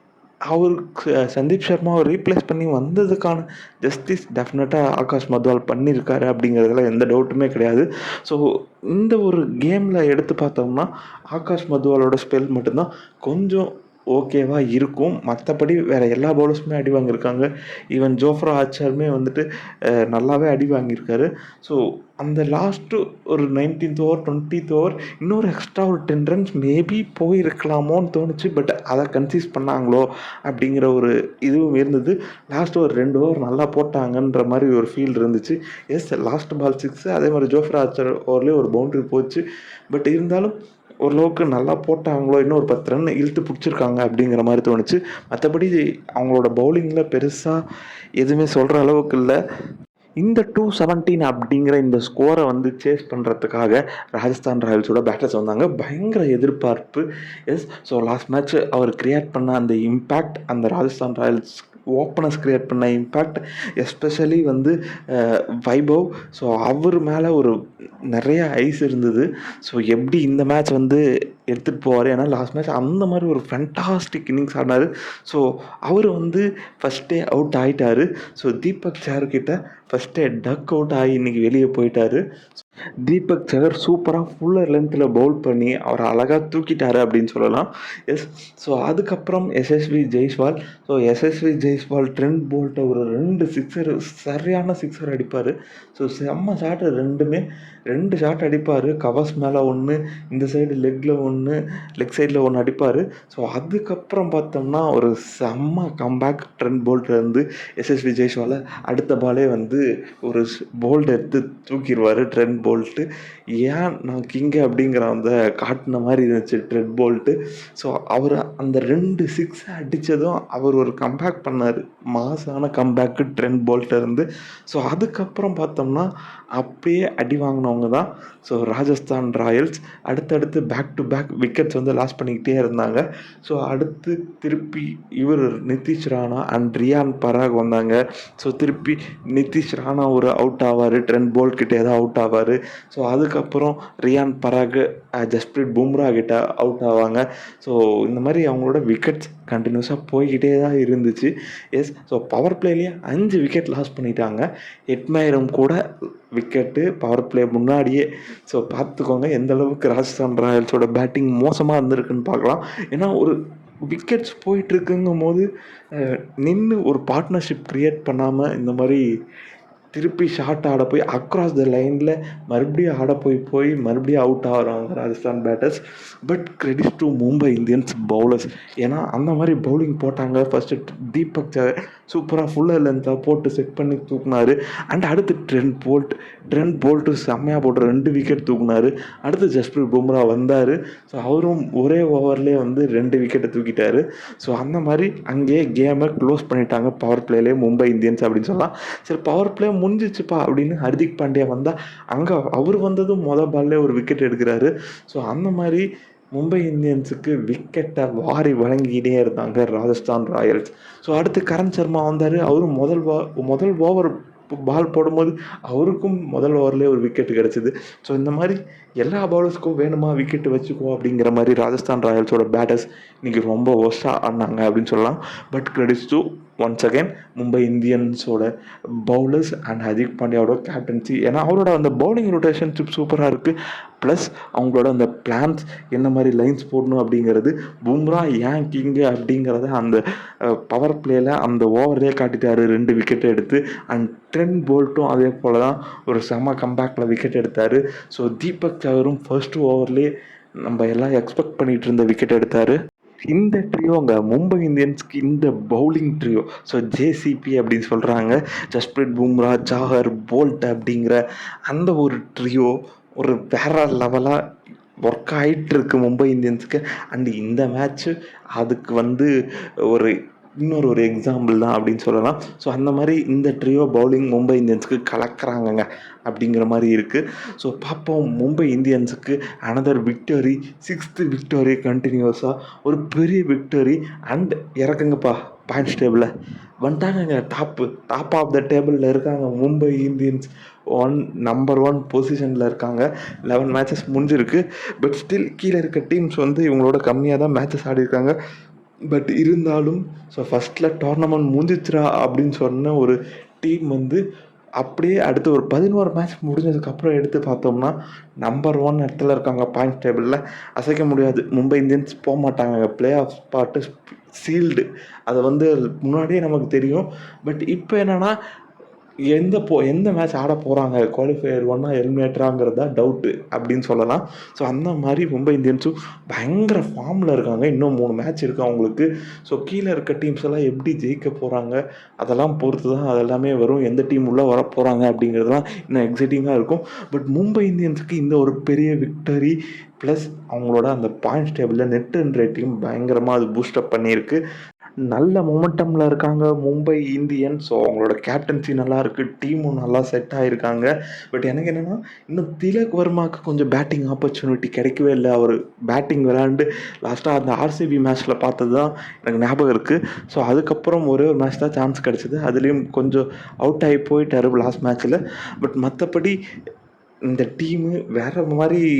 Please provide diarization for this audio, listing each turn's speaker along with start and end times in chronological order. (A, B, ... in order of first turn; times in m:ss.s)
0:00.5-0:47.6 A
0:48.2-0:49.4 A
0:50.2-1:07.5 A
1:08.1-1:22.2 A
1:23.0-2:35.8 A
2:36.4-2:49.0 A
2:50.0-3:48.5 A
3:49.0-4:10.1 A
4:10.6-4:12.8 A
4:13.3-4:24.4 A
4:25.0-4:29.3 A
4:29.9-4:46.3 A
4:46.8-4:58.4 A
4:59.1-5:04.2 A
5:04.8-5:18.3 A
5:19.3-5:44.4 A
5:45.1-6:06.4 A
6:07.3-6:08.8 A